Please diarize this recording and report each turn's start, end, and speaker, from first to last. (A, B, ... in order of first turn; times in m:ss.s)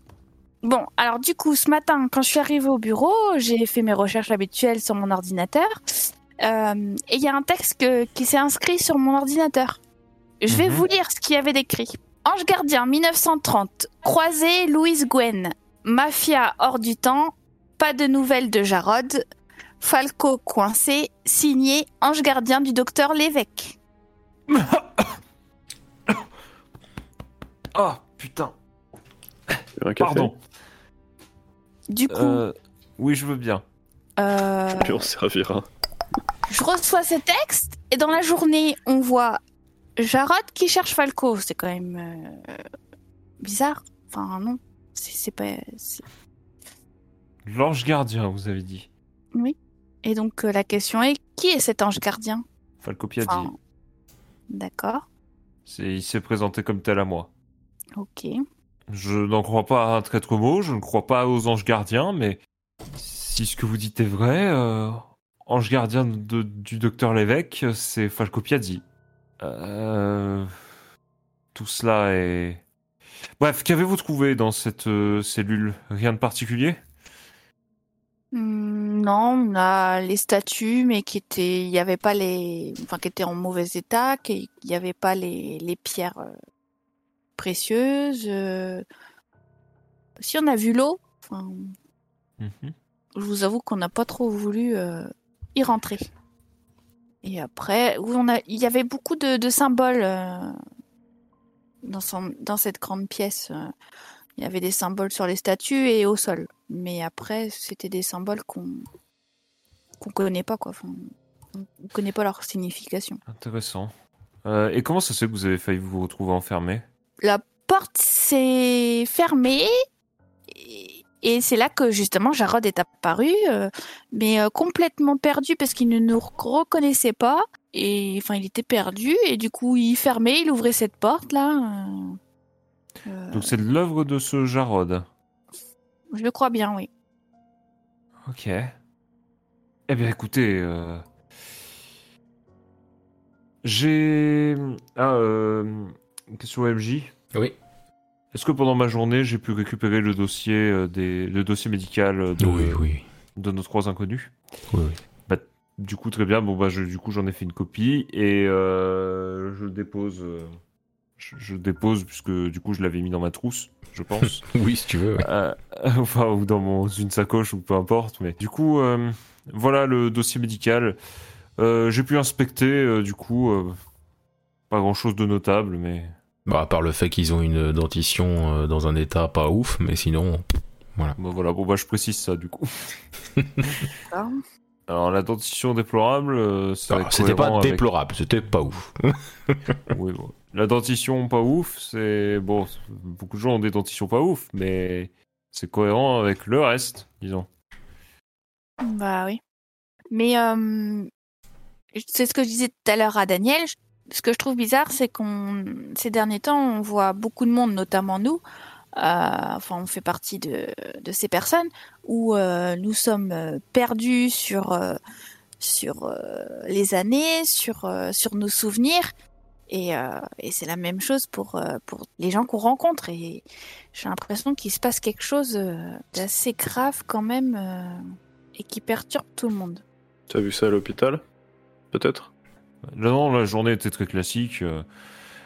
0:00.6-0:09.8 A
0:10.4-0:19.2 A
0:10.5-0:10.8 B
0:19.8-0:23.8 A
0:24.5-0:25.2 B
0:27.7-0:28.5 B
0:29.5-0:30.4 B
0:29.8-0:30.3 C
0:31.9-0:32.4 A
0:32.1-0:33.6 B
0:34.2-0:35.0 A
0:34.7-0:35.6 C
0:36.5-0:39.4 A
0:40.0-0:42.5 A
0:43.4-0:46.0 A
0:47.4-0:48.9 B
0:49.3-0:52.4 A
0:52.8-0:53.5 B
0:53.2-0:53.6 A
0:54.5-0:55.0 A
0:55.6-0:57.3 B
0:58.0-0:58.3 A
0:58.9-1:02.4 B
1:03.0-1:08.8 B
1:09.4-1:10.6 B
1:11.5-1:12.6 B
1:13.4-1:16.8 B
1:18.3-1:26.3 A
1:27.4-1:28.8 A
1:30.2-1:31.7 A
1:32.4-1:32.7 B
1:33.2-1:36.1 A
1:37.2-1:40.6 A
1:41.8-1:43.7 A
1:44.4-1:48.8 A
1:50.0-1:53.2 A
1:53.3-1:53.9 B
1:54.4-1:56.8 B
1:57.2-1:59.7 A
2:00.5-2:12.2 A
2:13.0-2:13.6 A
2:13.3-2:15.0 B
2:16.1-2:16.9 A
2:18.2-2:18.7 B
2:19.9-2:21.0 B
2:23.6-2:27.1 B
2:28.3-2:34.3 B
2:32.4-2:33.0 D
2:34.7-2:35.0 D
2:35.3-2:40.6 B
2:41.2-2:44.4 B
2:44.4-2:45.2 D
2:45.2-2:51.0 B
2:51.6-2:53.8 B
2:54.7-2:56.1 B
2:56.4-3:01.2 D
3:01.2-3:03.0 B
3:03.4-3:03.6 D
3:04.1-3:04.4 A
3:04.9-3:07.8 B
3:06.9-3:09.8 D
3:09.9-3:17.5 B
3:18.8-3:19.4 A
3:20.1-3:21.1 A
3:21.9-3:28.4 A
3:29.0-3:35.0 A
3:35.6-3:39.1 A
3:39.7-3:48.0 A
3:48.6-3:49.8 A
3:50.3-3:51.2 C
3:51.9-3:52.3 C
3:52.9-3:54.8 B